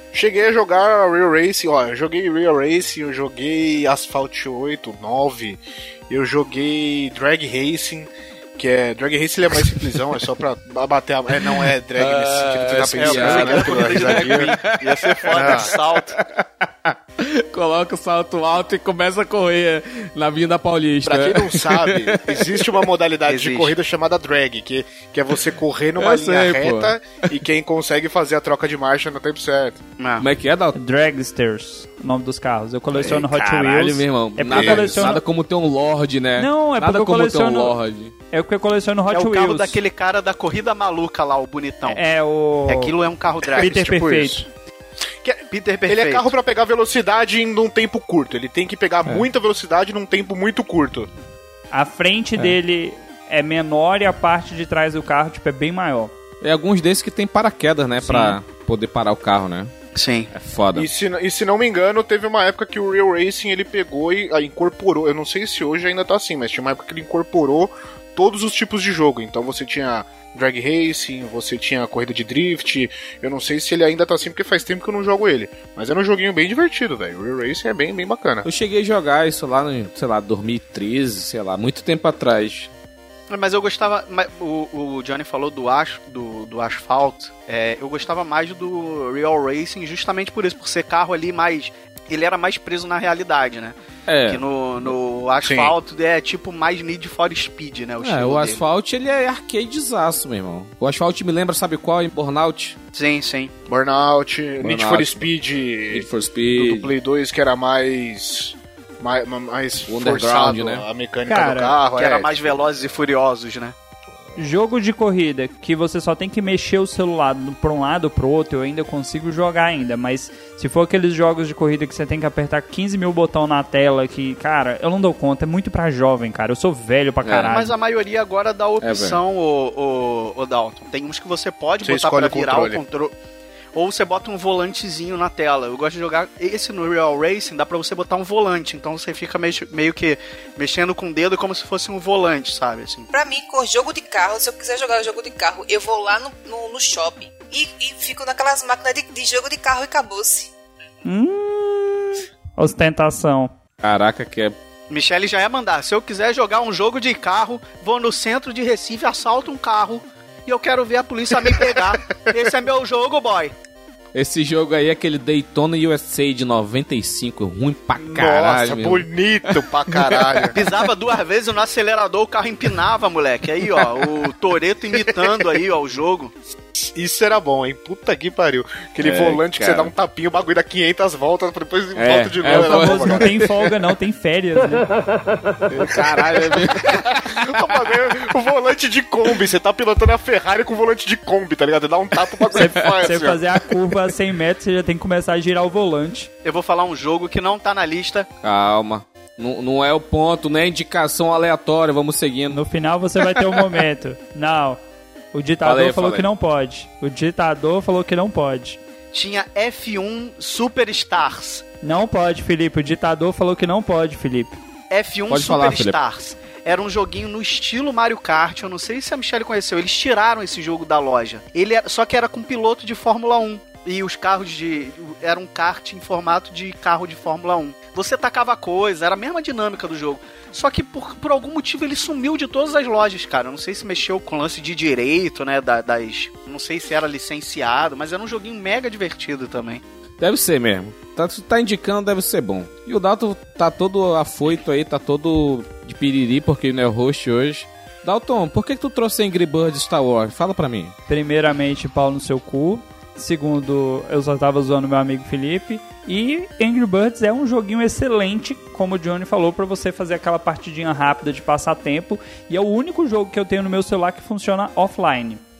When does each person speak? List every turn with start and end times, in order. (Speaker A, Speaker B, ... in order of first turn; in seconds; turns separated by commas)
Speaker A: 0.1-14.6, Speaker B: 11.4-22.8, Speaker C: 13.0-16.2, Speaker A: 15.3-15.7, Speaker A: 21.0-29.8, Speaker C: 23.3-23.7, Speaker B: 26.0-26.9, Speaker C: 30.0-30.3, Speaker B: 30.2-30.7, Speaker D: 30.7-35.2, Speaker B: 32.9-38.1, Speaker A: 34.5-35.2, Speaker D: 36.4-37.7, Speaker D: 38.3-39.8, Speaker C: 39.1-42.0, Speaker D: 41.9-42.9, Speaker C: 42.7-43.7, Speaker A: 43.4-44.5, Speaker D: 43.6-44.4, Speaker A: 45.2-51.1, Speaker C: 45.5-46.3, Speaker D: 51.7-56.1, Speaker B: 56.4-59.7, Speaker C: 59.9-60.3, Speaker B: 60.3-60.9, Speaker A: 60.7-78.5, Speaker B: 78.4-82.7, Speaker C: 83.3-93.8, Speaker B: 94.1-95.0, Speaker C: 94.3-98.6, Speaker A: 95.4-95.7, Speaker B: 98.0-102.8, Speaker C: 102.9-103.5, Speaker A: 103.7-112.3, Speaker B: 104.6-105.3, Speaker B: 105.9-106.9, Speaker B: 109.9-110.8, Speaker D: 111.3-111.8, Speaker C: 112.0-113.8, Speaker D: 114.4-127.7, Speaker B: 127.2-127.5, Speaker C: 127.5-133.1, Speaker B: 128.8-129.2, Speaker A: 131.8-132.8, Speaker C: 133.7-143.1, Speaker E: 143.1-150.5, Speaker D: 151.0-153.5, Speaker B: 153.8-154.6, Speaker C: 154.9-163.5, Speaker B: 164.1-170.7, Speaker A: 168.0-170.6, Speaker C: 170.5-176.3, Speaker B: 173.7-174.1, Speaker A: 176.8-183.6, Speaker B: 179.0-179.9, Speaker B: 181.9-183.5, Speaker D: 182.5-184.9, Speaker B: 185.7-187.7, Speaker A: 185.9-193.4, Speaker B: 192.5-193.2, Speaker D: 192.5-196.3, Speaker C: 196.4-198.3, Speaker B: 198.4-202.6, Speaker D: 202.5-204.8, Speaker B: 203.2-203.6, Speaker D: 205.3-208.8, Speaker B: 205.6-206.3, Speaker C: 209.1-211.6, Speaker D: 211.8-214.6, Speaker C: 214.9-239.8, Speaker B: 215.3-216.0, Speaker B: 240.2-250.9, Speaker D: 251.1-265.4